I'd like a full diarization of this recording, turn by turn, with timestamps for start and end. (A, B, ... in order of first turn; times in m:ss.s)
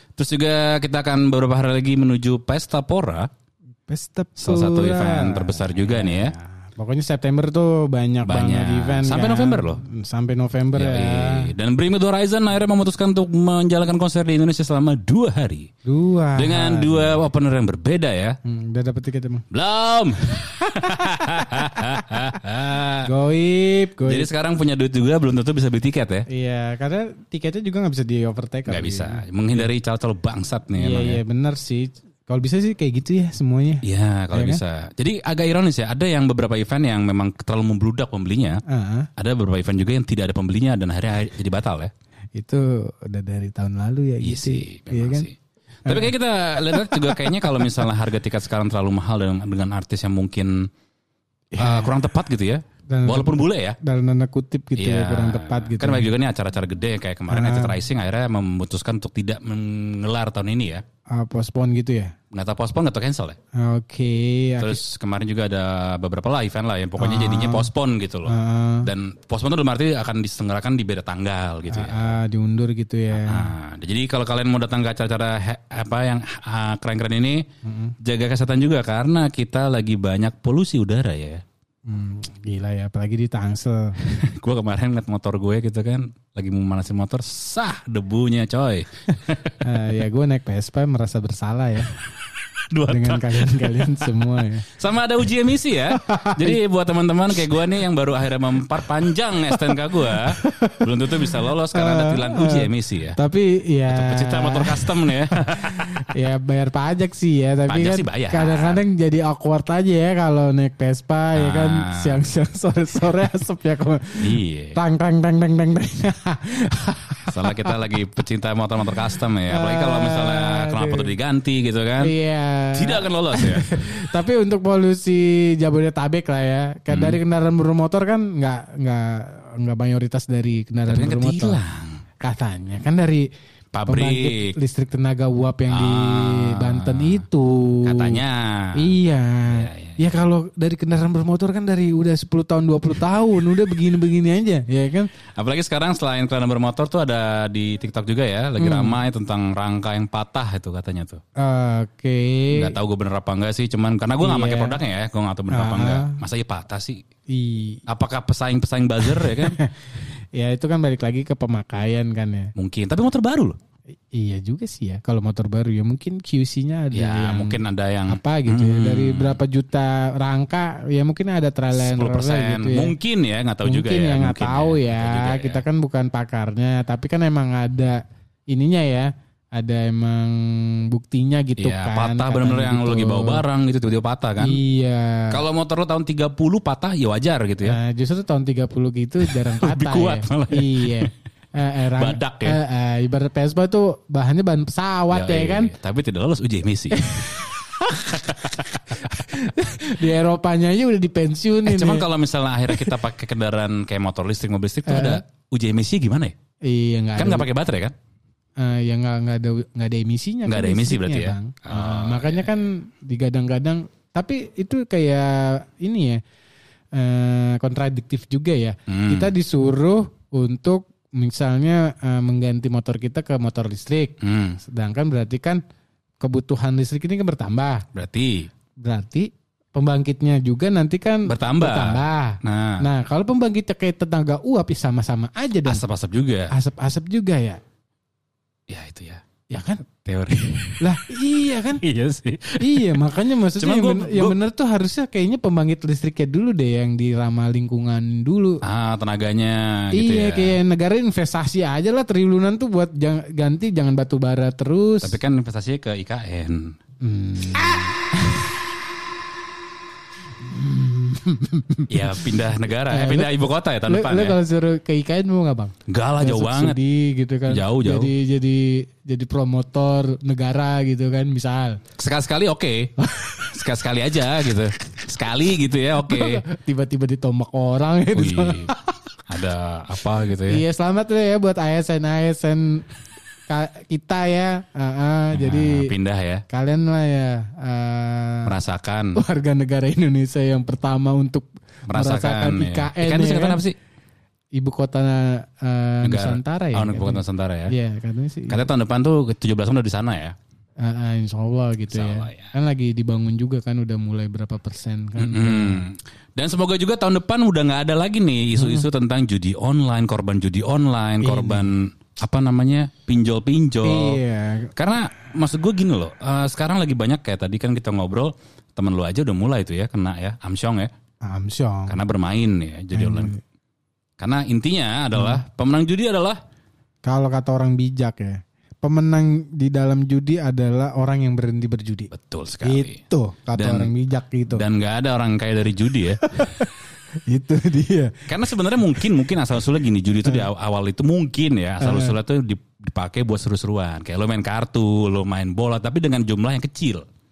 0:00.2-0:03.3 A
0:03.9-0:11.5 B
0:04.4-0:06.3 A
0:08.2-0:09.8 A
0:10.7-0:15.7 A
0:15.9-0:17.2 B
0:16.4-0:18.4 A
0:18.4-0:19.4 B
0:19.5-0:23.1 A
0:23.0-0:24.3 B
0:24.1-0:26.2 A
0:26.3-0:29.7 B
0:28.7-0:31.2 A
0:30.8-0:34.6 B
0:33.8-0:38.6 A
0:38.7-0:39.1 B
0:39.2-0:41.9 A
0:42.4-0:45.3 B
0:44.2-0:45.3 A
0:45.9-0:46.1 B
0:45.9-0:50.7 A
0:46.7-0:47.9 B
0:51.5-0:52.0 B
0:51.6-0:53.8 A
0:52.9-0:56.1 B
0:54.8-1:00.8 A
0:57.3-0:57.8 B
1:01.1-1:02.1 B
1:02.3-1:03.4 A
1:03.6-1:04.8 B
1:04.6-1:12.2 A
1:07.0-1:07.7 B
1:08.3-1:08.9 B
1:11.7-1:13.5 B
1:13.2-1:17.5 A
1:17.6-1:17.9 B
1:18.0-1:21.4 A
1:21.9-1:24.0 B
1:24.0-1:29.6 A
1:29.6-1:31.9 B
1:32.0-1:43.2 A
1:32.9-1:34.7 B
1:35.9-1:36.6 B
1:39.5-1:57.8 B
1:43.9-1:46.0 A
1:47.7-1:48.8 A
1:51.4-1:52.2 A
1:54.2-1:54.8 A
1:57.3-2:02.1 A
1:59.5-2:01.1 B
2:02.0-2:11.6 B
2:02.7-2:03.7 A
2:06.9-2:07.2 A
2:10.9-2:12.0 A
2:12.2-2:13.3 B
2:13.7-2:14.5 A
2:13.9-2:18.2 B
2:15.7-2:17.2 A
2:17.8-2:18.8 A
2:18.8-2:25.1 B
2:19.5-2:20.2 A
2:25.4-2:31.2 A
2:28.6-2:29.0 B
2:31.4-2:32.8 B
2:32.5-2:37.0 A
2:34.2-2:34.8 B
2:35.5-2:36.2 B
2:37.3-2:37.8 B
2:37.9-2:39.6 A
2:39.0-2:42.5 B
2:42.6-2:43.6 A
2:44.1-2:53.0 B
2:46.9-2:49.4 A
2:51.7-2:55.6 A
2:53.6-3:03.4 B
3:01.6-3:04.6 A
3:04.4-3:05.4 B
3:05.3-3:07.8 A
3:07.6-3:15.7 B
3:09.2-3:11.1 A
3:12.0-3:12.6 A
3:15.1-3:17.5 A
3:16.9-3:22.1 B
3:18.1-3:19.3 A
3:21.7-3:26.4 A
3:22.7-3:23.0 B
3:24.9-3:25.2 B
3:26.6-3:27.5 B
3:27.2-3:27.9 A
3:28.6-3:36.2 B
3:30.5-3:32.5 A
3:36.9-3:45.6 B
3:38.9-3:39.3 A
3:44.2-3:44.6 A
3:46.2-3:47.8 B
3:47.9-3:48.5 A
3:48.8-3:55.8 B
3:51.3-3:52.8 A
3:55.6-3:56.5 A
3:56.5-3:57.6 B
3:58.7-3:59.2 A
3:59.5-3:59.8 B
4:00.0-4:01.0 A
4:00.8-4:01.8 B
4:01.8-4:04.4 A
4:02.6-4:08.6 B
4:08.6-4:10.6 A
4:09.9-4:15.2 B
4:15.0-4:16.8 A
4:17.0-4:18.5 B
4:20.4-4:31.8 B
4:21.9-4:24.4 A
4:25.9-4:26.8 A
4:27.5-4:28.1 A
4:32.0-4:32.9 A
4:33.0-4:33.5 B
4:33.4-4:36.4 A
4:36.1-4:39.0 B
4:38.1-4:38.7 A
4:39.3-4:40.6 A
4:40.5-4:42.8 B
4:43.5-4:45.9 B
4:45.3-4:46.4 A
4:46.5-4:48.5 B
4:48.5-4:49.2 A
4:49.2-4:53.6 B
4:51.9-4:53.8 A
4:54.6-4:58.6 B
4:56.0-4:57.7 A
4:58.5-5:00.4 A
5:00.8-5:05.8 B
5:01.9-5:02.5 A
5:05.2-5:14.2 A
5:08.6-5:08.9 B
5:11.2-5:11.7 B
5:13.8-5:14.7 B
5:14.8-5:20.9 A
5:21.2-5:22.0 B
5:21.9-5:23.4 A
5:22.9-5:23.4 B
5:24.2-5:26.4 A
5:25.1-5:25.4 B
5:27.0-5:32.1 B
5:32.1-5:33.0 A
5:32.6-5:34.6 B
5:33.6-5:33.9 A
5:34.5-5:36.2 A
5:36.2-5:36.7 B
5:37.3-5:38.3 B
5:38.3-5:47.0 A
5:40.2-5:40.5 B
5:41.8-5:42.2 B